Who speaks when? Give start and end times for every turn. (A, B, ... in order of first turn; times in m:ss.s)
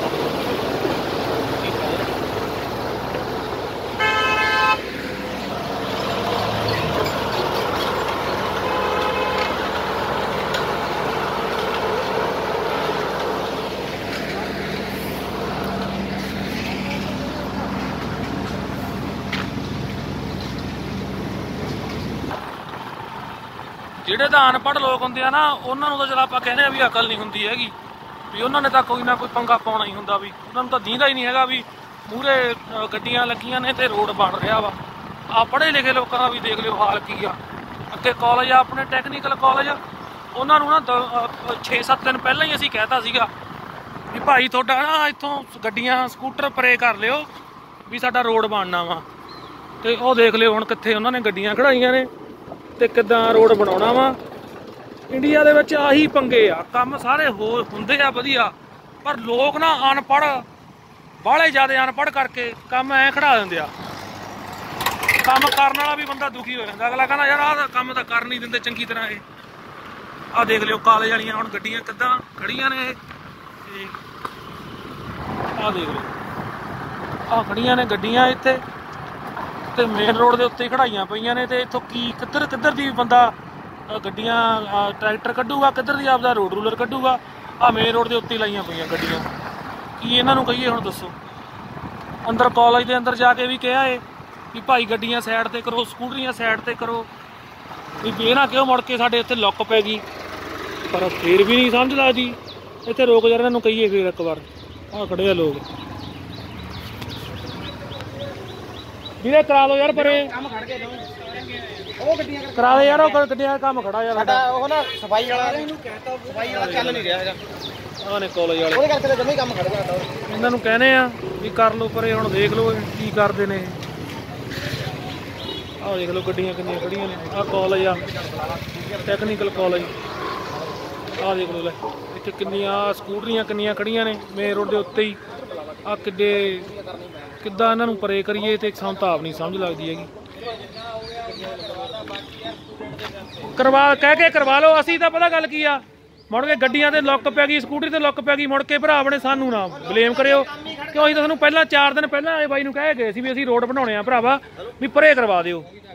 0:24.0-0:27.8 A
0:28.3-0:34.8 A
0:35.3-0:39.8 A
0:40.3-0:43.3 A
0:44.1-0:47.3 A
0:47.8-0:49.0 A
0:49.8-0:52.1 A
0:52.8-0:54.2 A
0:55.1-1:00.4 A
1:01.2-1:03.7 A
1:05.2-1:09.2 A
1:10.3-1:13.0 A
1:13.6-1:14.0 A
1:15.5-1:16.2 A
1:17.3-1:18.6 A
1:19.7-1:23.3 A
1:23.9-1:29.3 A
1:30.0-1:31.2 A
1:32.2-1:37.1 A
1:38.0-1:40.0 A
1:40.9-1:45.7 A
1:49.2-1:50.5 A
1:50.5-1:51.0 B
1:52.0-1:52.4 B
1:52.4-1:54.6 A
1:54.5-1:57.4 B
1:56.4-1:57.2 A
1:58.0-1:59.0 A
1:59.0-2:00.1 B
2:00.2-2:03.8 A
2:05.8-2:08.1 A
2:08.8-2:09.9 A
2:11.1-2:16.8 A
2:17.3-2:20.1 A
2:23.6-2:35.7 A